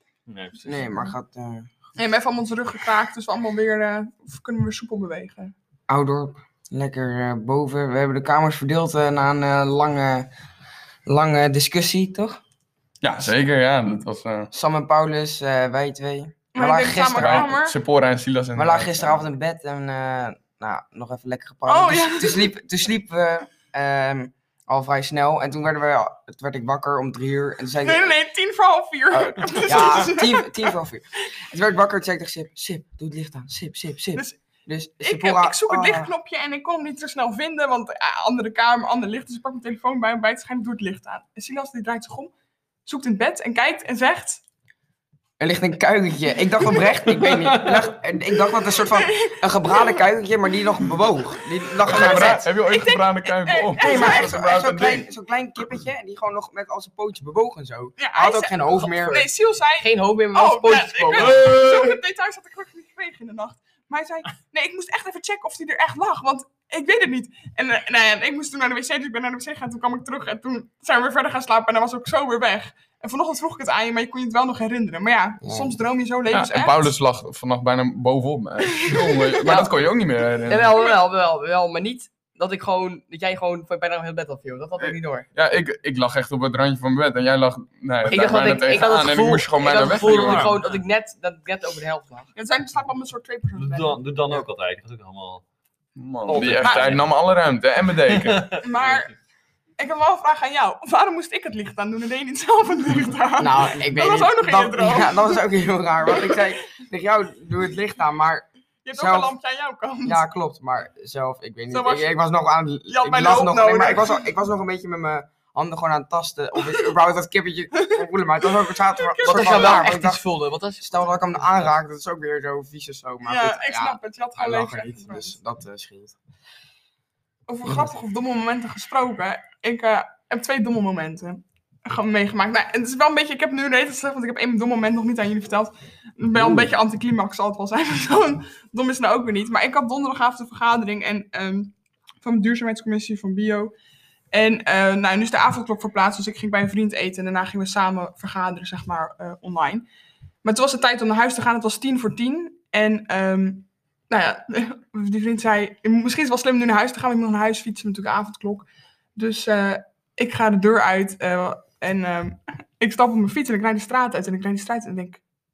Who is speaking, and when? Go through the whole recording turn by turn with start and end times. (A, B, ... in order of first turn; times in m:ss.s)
0:00.3-0:00.9 A
0:00.6-0:01.7 B
0:00.7-0:01.1 C
0:02.0-0:05.5 C
0:05.9-0:10.3 B
0:11.1-0:12.4 B
0:13.0-0:14.5 D
0:14.5-0:17.5 B
0:16.5-0:17.8 C
0:17.2-0:19.2 D
0:18.5-0:28.1 B
0:21.7-0:22.5 C
0:27.8-0:30.8 C
0:29.1-0:36.1 B
0:34.1-0:34.4 C
0:35.0-0:42.3 C
0:42.8-0:44.4 C
0:45.4-0:52.4 B
0:47.1-0:47.9 A
0:48.8-0:50.0 C
0:51.8-0:54.6 C
0:51.8-0:55.1 D
0:53.8-0:59.3 B
0:58.0-1:16.9 C
0:59.8-1:01.7 E
1:01.2-1:01.6 A
1:15.4-1:15.8 B
1:16.3-1:20.8 D
1:18.6-1:19.7 C
1:20.5-1:25.2 E
1:20.7-1:21.0 C
1:24.8-1:30.5 D
1:28.0-1:32.3 E
1:29.8-1:30.8 A
1:32.4-1:34.0 C
1:33.6-1:35.4 A
1:36.0-1:38.6 D
1:36.2-1:37.1 A
1:36.4-1:37.0 C
1:38.0-1:39.1 A
1:38.5-1:39.1 C
1:39.8-1:45.4 C
1:43.4-1:49.3 B
1:48.8-1:50.2 C
1:50.0-2:00.2 B
1:51.7-1:52.1 C
1:52.8-1:54.3 C
1:57.8-1:59.9 C
1:59.2-2:01.5 E
2:00.8-2:06.1 B
2:03.2-2:05.4 C
2:07.5-2:23.7 C
2:16.4-2:16.7 B
2:24.3-2:29.9 C
2:30.4-2:45.2 C